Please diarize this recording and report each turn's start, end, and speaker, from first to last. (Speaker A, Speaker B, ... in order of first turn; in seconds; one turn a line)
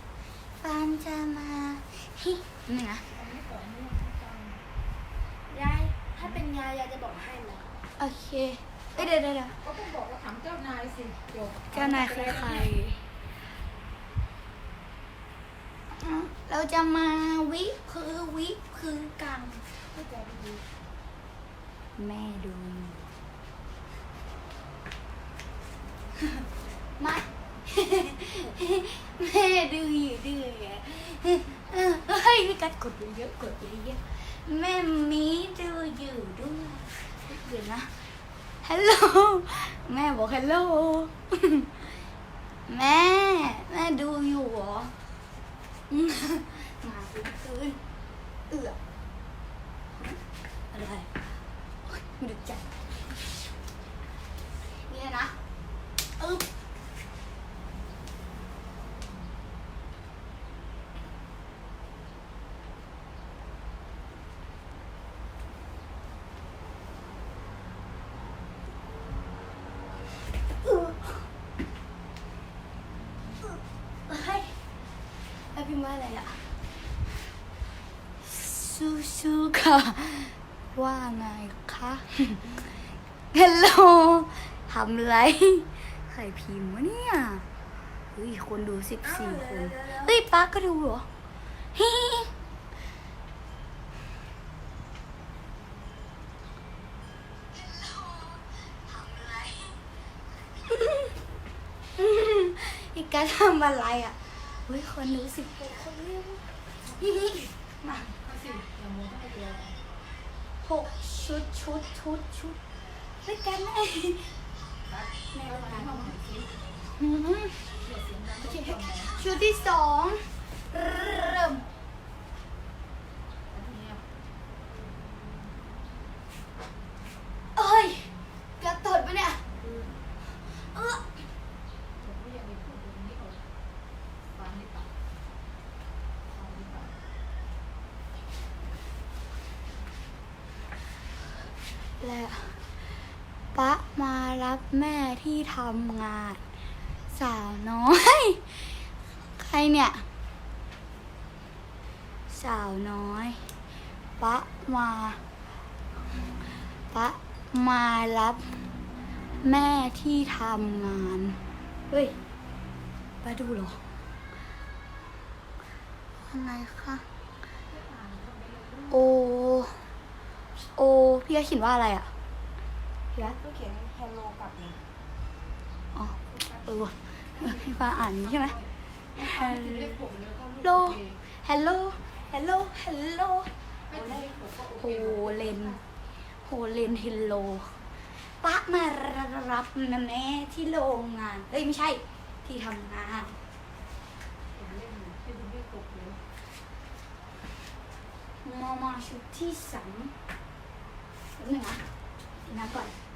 Speaker A: 0.6-3.0
Speaker B: 3.0-4.6
Speaker C: 5.5-7.7
Speaker A: 8.0-9.6
Speaker B: 9.6-12.7
Speaker A: 11.7-13.2
Speaker A: 15.9-19.7
Speaker B: 19.9-20.6
Speaker A: 21.9-23.1
Speaker A: 27.0-42.0
Speaker A: 42.7-45.0
Speaker A: 45.9-47.8
Speaker A: 48.5-48.8
Speaker A: 50.0-51.3
Speaker A: 51.8-53.1
Speaker A: 54.8-55.4
Speaker A: 56.1-56.5
Speaker A: 70.6-71.3
Speaker A: 73.4-74.6
Speaker A: 75.5-76.5
Speaker A: 78.2-82.8
Speaker A: 83.3-87.4
Speaker A: 88.1-91.1
Speaker C: 89.0-90.1
Speaker A: 91.7-92.3
Speaker A: 97.6-99.8
Speaker A: 100.6-101.2
Speaker A: 102.0-108.1
Speaker C: 105.6-106.2
Speaker B: 106.8-107.5
Speaker B: 108.1-109.8
Speaker A: 110.6-114.3
Speaker B: 114.9-116.6
Speaker A: 115.3-116.1
Speaker A: 116.9-117.7
Speaker B: 117.8-119.2
Speaker A: 118.4-121.7
Speaker B: 123.5-124.0
Speaker A: 127.5-129.5
Speaker A: 130.3-131.2
Speaker B: 132.0-133.4
Speaker B: 134.3-134.9
Speaker B: 136.2-136.9
Speaker A: 142.0-142.8
Speaker A: 143.5-146.4
Speaker A: 147.1-150.1
Speaker A: 152.3-153.6
Speaker A: 154.2-155.2
Speaker A: 156.9-158.7
Speaker A: 159.4-162.2
Speaker A: 163.2-163.9
Speaker A: 166.2-167.1
Speaker B: 167.7-169.1
Speaker A: 168.9-169.9
Speaker A: 170.6-172.1
Speaker C: 173.2-174.8
Speaker A: 175.9-178.6
Speaker B: 176.2-181.2
Speaker A: 179.2-180.0
Speaker A: 180.6-183.5
Speaker B: 183.9-185.8
Speaker C: 183.9-184.3
Speaker A: 184.8-185.8
Speaker A: 186.3-193.4
Speaker B: 194.5-196.2
Speaker A: 198.4-200.2
Speaker A: 201.3-201.9
Speaker A: 202.4-202.9